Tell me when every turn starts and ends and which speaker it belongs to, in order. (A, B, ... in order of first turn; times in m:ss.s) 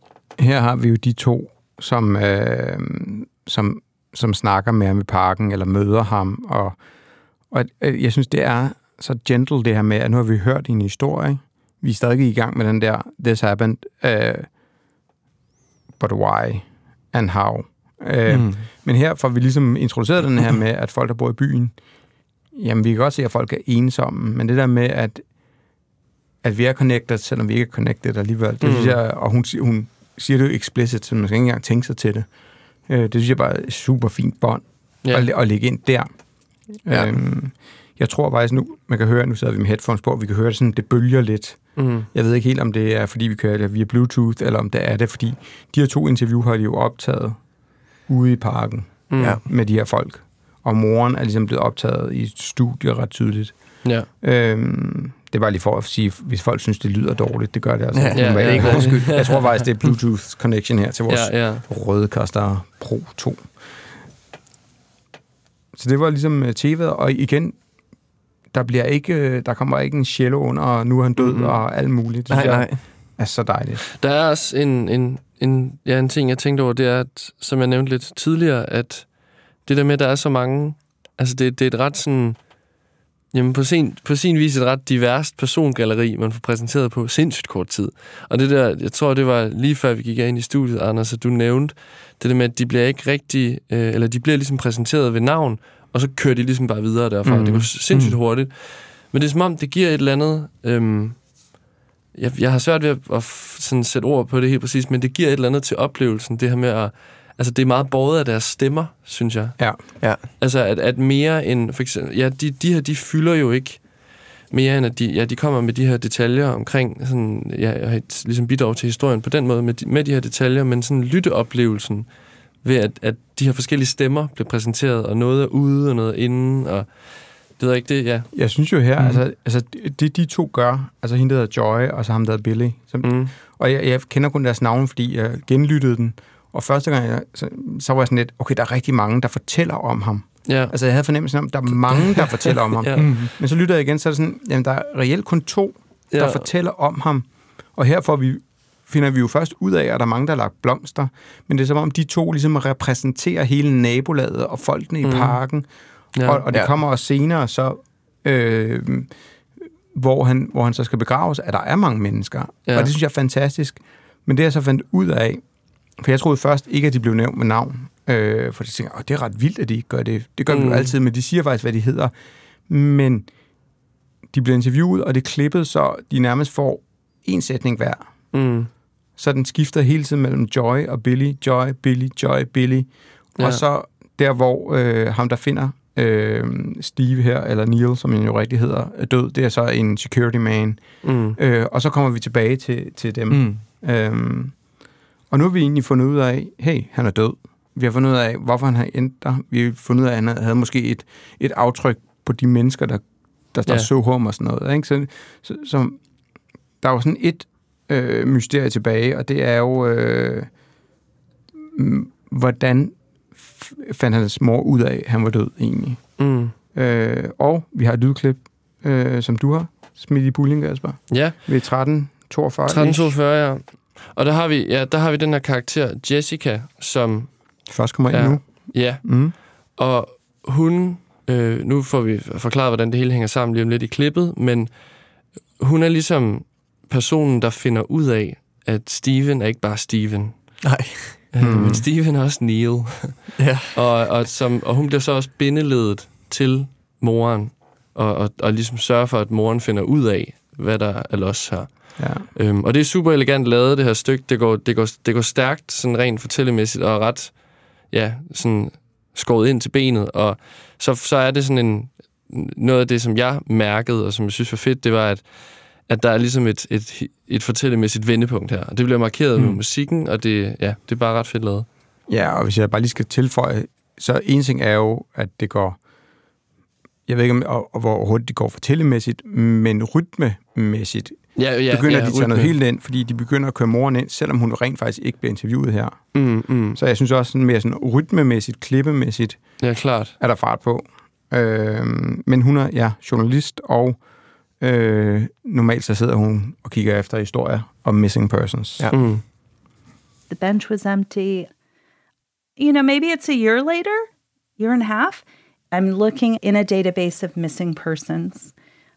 0:00.4-0:06.8 A
0:07.5-0:14.5 A
0:16.0-0:21.8 A
0:18.3-0:18.7 B
0:22.5-0:25.3 A
0:26.4-0:32.3 A
0:28.6-0:29.0 C
0:32.9-0:36.1 A
0:36.8-0:47.4 A
0:41.8-0:42.1 C
0:48.1-1:03.5 A
0:49.1-0:49.4 C
0:57.9-0:59.9 B
0:58.1-0:59.5 C
1:01.1-1:01.6 C
1:05.7-1:07.6 A
1:08.5-1:13.8 A
1:11.2-1:11.5 C
1:12.3-1:12.8 B
1:14.0-1:19.1 C
1:19.6-1:22.5 C
1:23.3-1:41.3 C
1:37.2-1:37.7 A
1:37.9-1:38.2 B
1:42.2-1:53.9 C
1:54.5-2:02.1 C
2:02.6-2:08.3 C
2:08.3-2:35.7 A
2:13.0-2:13.3 C
2:20.5-2:20.7 C
2:22.5-2:23.1 C
2:23.0-2:23.3 B
2:26.1-2:26.5 C
2:35.0-2:35.4 C
2:36.2-2:36.4 C
2:36.2-2:39.1 A
2:39.9-2:45.4 A
2:42.7-2:42.9 C
2:46.0-2:52.1 A
2:50.5-2:51.0 C
2:52.7-2:53.3 A
2:54.3-2:58.1 A
2:58.3-2:58.7 C
2:59.2-3:14.6 A
3:03.4-3:03.6 C
3:11.0-3:11.4 C
3:13.3-3:13.6 B
3:15.3-3:26.0 A
3:26.8-3:30.5 A
3:31.7-3:43.2 A
3:36.2-3:36.5 C
3:41.1-3:41.4 C
3:42.7-3:54.8 C
3:47.7-3:49.3 A
3:55.6-4:00.6 C
4:00.6-4:01.3 B
4:01.3-4:31.7 C
4:01.4-4:01.8 A
4:03.4-4:04.0 B
4:12.0-4:12.3 A
4:32.1-4:35.8 A
4:37.1-4:49.6 A
4:41.4-4:42.5 C
4:46.1-4:46.8 C
4:49.6-4:50.1 C
4:50.2-4:54.0 A
4:54.6-4:58.9 A
4:58.9-4:59.2 C
5:00.3-5:01.5 D
5:02.6-5:08.5 D